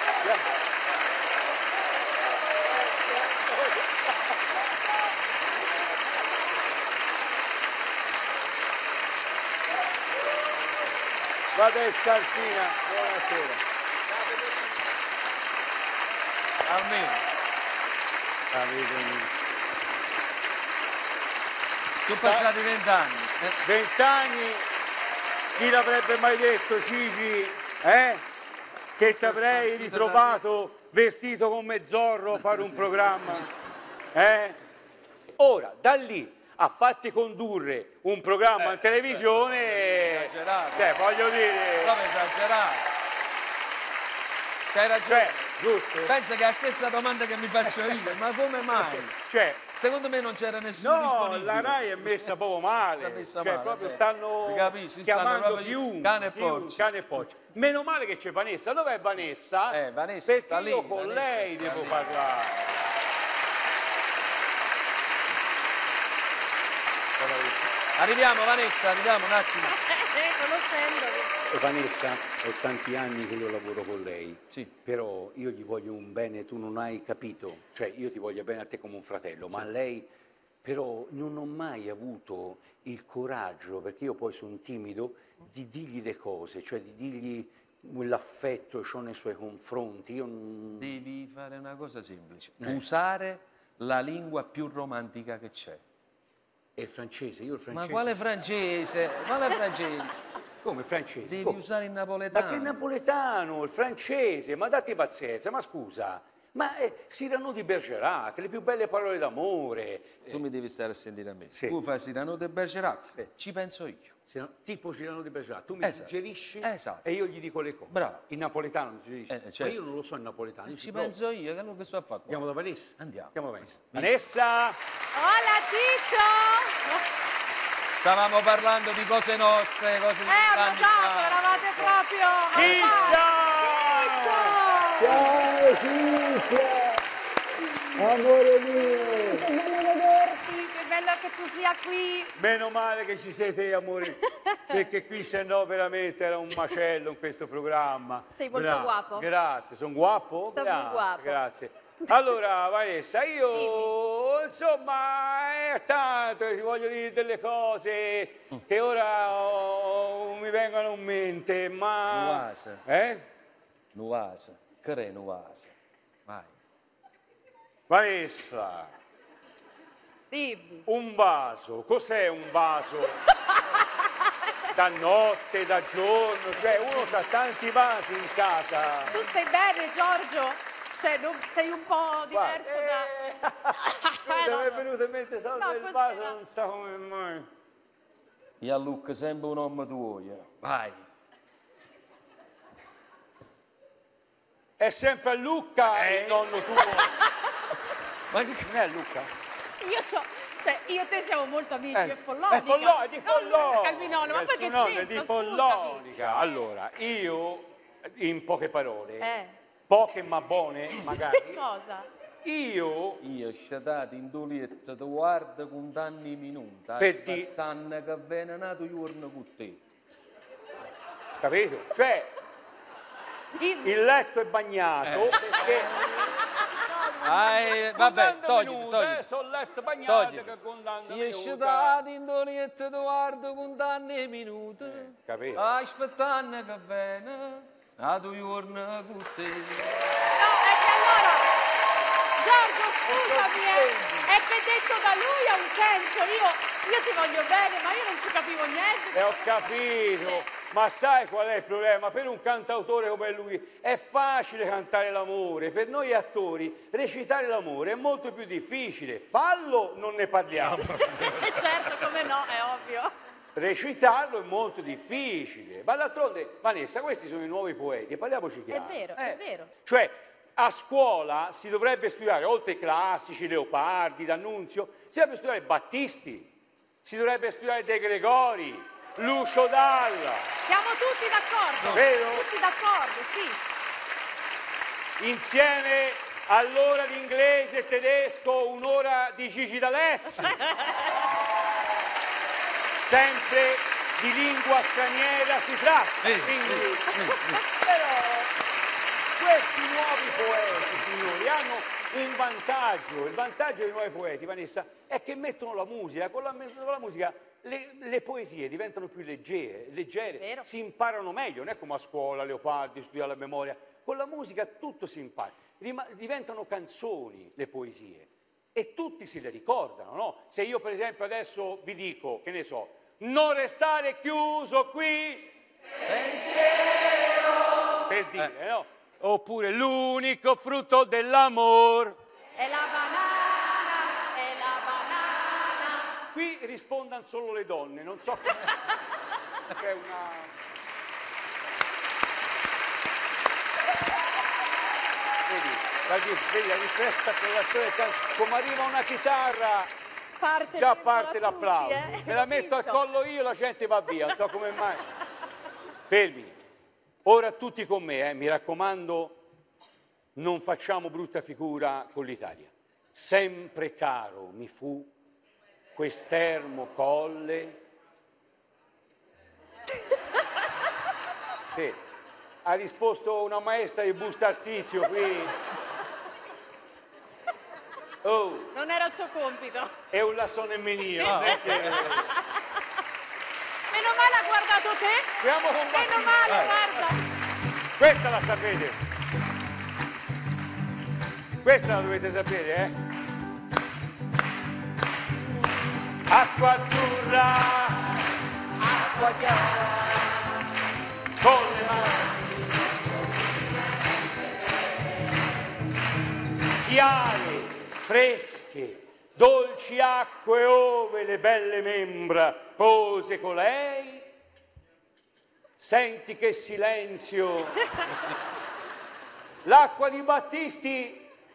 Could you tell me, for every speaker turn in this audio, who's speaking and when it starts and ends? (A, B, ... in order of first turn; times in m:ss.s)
0:11.5-0:13.6 A
0:16.6-0:17.2 B
0:18.5-0:19.3 A
0:22.0-0:23.6 B
0:22.2-0:22.5 A
0:23.6-0:24.6 A
0:25.5-0:28.2 A
0:29.0-0:33.5 A
0:29.0-0:30.4 B
0:32.3-0:33.8 B
0:34.1-0:34.6 A
0:35.3-0:42.0 A
0:38.6-0:40.9 B
0:41.8-0:42.9 B
0:44.7-0:45.4 B
0:45.0-0:46.2 A
0:46.1-0:49.1 B
0:47.7-0:48.0 A
0:48.8-0:49.6 A
0:49.7-0:52.3 B
0:50.8-1:02.8 A
0:52.9-0:56.9 B
0:59.7-1:02.3 B
1:07.2-1:07.6 A
1:08.0-1:09.8 B
1:09.7-1:11.3 C
1:11.5-1:20.1 A
1:20.6-1:31.0 A
1:30.8-1:35.8 B
1:36.8-1:38.2 A
1:37.7-1:40.2 B
1:40.6-1:41.6 A
1:41.2-1:42.8 B
1:42.3-1:50.4 A
1:50.3-1:54.1 B
1:51.5-1:51.8 A
1:54.2-2:01.2 A
1:55.8-1:57.1 B
1:57.9-1:58.2 B
1:59.3-1:59.8 B
2:00.7-2:02.4 B
2:02.3-2:04.8 A
2:03.0-2:03.3 B
2:05.1-2:07.0 C
2:08.0-2:12.0 B
2:10.2-2:15.2 C
2:12.5-2:16.9 A
2:12.5-2:13.1 B
2:17.9-2:19.5 A
2:18.8-2:22.3 C
2:22.4-2:43.2 A
2:24.2-2:24.8 C
2:28.3-2:29.2 C
2:30.5-2:31.4 C
2:33.5-2:33.9 C
2:42.1-2:42.8 B
2:43.9-2:46.5 B
2:47.9-2:48.9 A
2:50.3-2:50.8 C
2:50.8-2:53.2 A
2:54.7-2:59.2 A
2:59.1-3:03.1 C
3:02.3-3:07.5 A
3:03.8-3:04.8 C
3:05.6-3:06.4 C
3:08.6-3:11.0 B
3:14.8-3:17.1 A
3:15.9-3:16.7 B
3:18.3-3:18.7 B
3:18.6-3:19.3 A
3:19.8-3:26.0 C
3:21.9-3:29.3 A
3:29.2-3:29.5 C
3:29.9-3:31.6 A
3:31.1-3:32.1 C
3:32.4-3:33.2 A
3:33.2-3:39.8 B
3:37.0-3:37.5 A
3:41.4-3:42.3 A
3:43.6-3:44.0 C
3:43.8-3:45.9 A
3:45.0-3:46.3 B
3:46.7-3:52.0 A
3:47.2-3:49.2 B
3:50.0-3:50.5 B
3:51.1-4:00.2 B
3:54.8-3:55.6 A
4:00.3-4:01.5 C
4:02.4-4:10.4 C
4:03.0-4:04.3 A
4:09.1-4:20.9 A
4:20.7-4:22.0 B
4:20.9-4:23.1 C
4:23.5-4:36.5 A
4:28.7-4:29.7 C
4:37.0-4:40.5 A
4:40.7-4:43.6 C
4:41.9-4:42.5 A
4:45.2-4:50.6 A
4:53.0-4:58.5 A
4:56.2-4:57.6 B
4:59.4-5:25.6 A
5:10.4-5:10.6 C
5:26.1-5:27.3 B
5:28.0-5:32.2 A
5:32.6-5:36.1 C
5:36.3-5:38.8 A
5:39.7-5:40.5 A
5:45.4-5:49.9 A
5:50.4-5:53.0 C
5:50.7-5:55.0 A
5:56.1-5:56.6 A
5:57.2-5:59.4 A
6:00.3-6:05.1 A
6:05.9-6:07.8 A
6:11.7-6:12.0 A
6:12.6-6:15.5 A
6:18.2-6:18.7 A
6:18.7-6:19.9 C
6:20.1-6:22.2 A
6:21.2-6:22.4 C
6:21.2-6:22.2 B
6:23.9-6:25.3 C
6:25.4-6:27.1 A
6:25.9-6:27.2 C
6:26.5-6:26.7 B
6:28.0-6:29.0 A
6:31.6-6:32.9 A
6:36.3-6:38.2 A
6:39.0-6:39.5 B
6:41.4-6:42.4 A
6:46.8-6:54.3 A
6:55.8-6:57.8 A
6:59.6-7:01.3 A